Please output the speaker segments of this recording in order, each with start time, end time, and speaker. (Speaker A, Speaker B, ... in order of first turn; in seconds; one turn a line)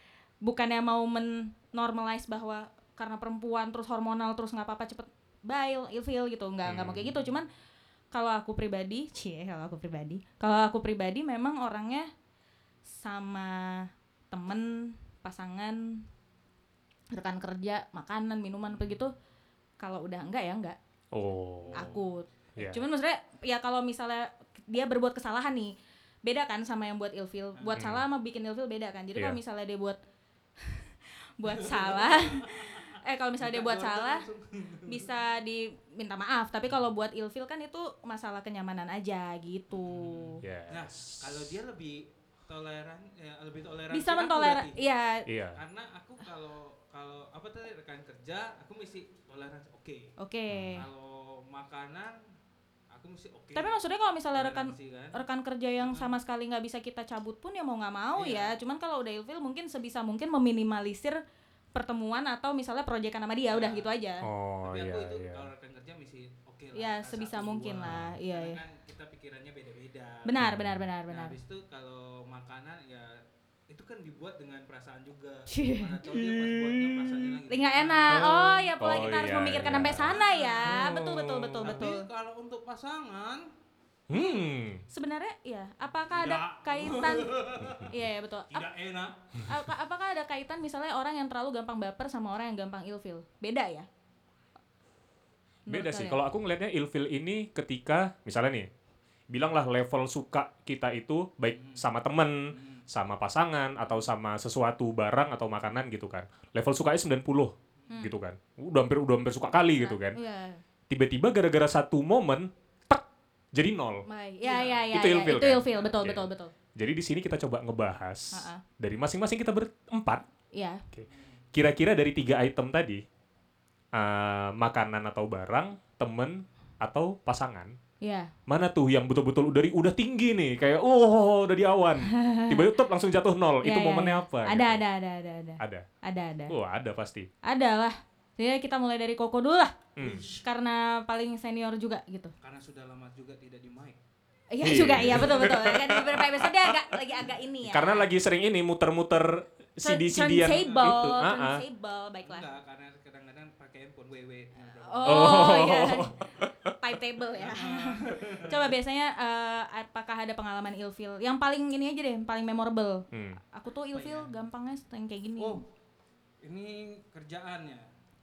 Speaker A: 0.4-7.5
Speaker B: 6.6-7.1
Speaker A: 8.1-12.1
Speaker A: 12.8-16.1
Speaker A: 17.1-19.1
Speaker A: 19.8-20.8
Speaker B: 21.1-22.0
Speaker C: 21.6-22.0
Speaker A: 21.7-30.0
Speaker B: 22.6-22.8
Speaker C: 27.6-27.8
Speaker B: 27.8-28.0
Speaker A: 30.6-30.9
Speaker A: 31.4-34.2
Speaker C: 31.5-35.1
Speaker A: 34.8-40.4
Speaker C: 39.7-44.8
Speaker B: 40.4-41.5
Speaker A: 43.9-45.3
Speaker B: 45.3-45.6
Speaker C: 45.5-50.1
Speaker A: 50.2-50.8
Speaker B: 50.5-50.8
Speaker C: 50.7-52.2
Speaker C: 52.9-53.8
Speaker A: 53.5-61.2
Speaker C: 54.3-55.2
Speaker C: 55.8-56.1
Speaker C: 58.1-58.5
Speaker A: 61.7-64.3
Speaker C: 63.5-63.9
Speaker B: 64.2-65.5
Speaker C: 64.6-70.5
Speaker A: 66.7-68.6
Speaker A: 70.2-71.3
Speaker B: 70.4-70.8
Speaker C: 71.1-78.3
Speaker A: 75.5-76.0
Speaker B: 76.0-77.4
Speaker A: 77.5-82.1
Speaker B: 78.1-81.8
Speaker C: 80.1-80.7
Speaker C: 81.6-83.5
Speaker B: 84.1-84.8
Speaker A: 84.1-87.3
Speaker C: 86.1-87.9
Speaker A: 87.8-88.7
Speaker C: 88.5-89.5
Speaker A: 89.4-93.9
Speaker A: 95.7-96.2
Speaker B: 95.7-98.7
Speaker B: 99.3-110.2
Speaker C: 101.5-101.9
Speaker C: 102.5-102.8
Speaker A: 109.8-110.6
Speaker B: 110.9-114.0
Speaker A: 114.0-116.5
Speaker C: 114.4-114.9
Speaker B: 114.9-120.2
Speaker C: 115.6-116.0
Speaker A: 118.3-118.6
Speaker A: 120.5-120.8
Speaker B: 120.9-123.0
Speaker C: 121.1-121.4
Speaker B: 123.9-127.7
Speaker A: 128.0-128.3
Speaker B: 128.5-134.8
Speaker A: 132.1-132.7
Speaker A: 133.6-136.6
Speaker B: 135.6-135.8
Speaker B: 136.5-137.3
Speaker A: 137.4-139.8
Speaker B: 139.9-140.2
Speaker C: 140.0-140.4
Speaker A: 140.4-142.3
Speaker C: 142.4-144.0
Speaker A: 144.5-148.1
Speaker B: 144.6-146.7
Speaker B: 147.6-151.6
Speaker A: 149.8-152.4
Speaker C: 152.2-155.6
Speaker A: 154.9-156.1
Speaker B: 155.0-156.8
Speaker A: 156.8-165.6
Speaker C: 157.4-158.7
Speaker B: 163.1-163.4
Speaker C: 163.9-164.3
Speaker C: 165.4-165.6
Speaker C: 166.4-167.9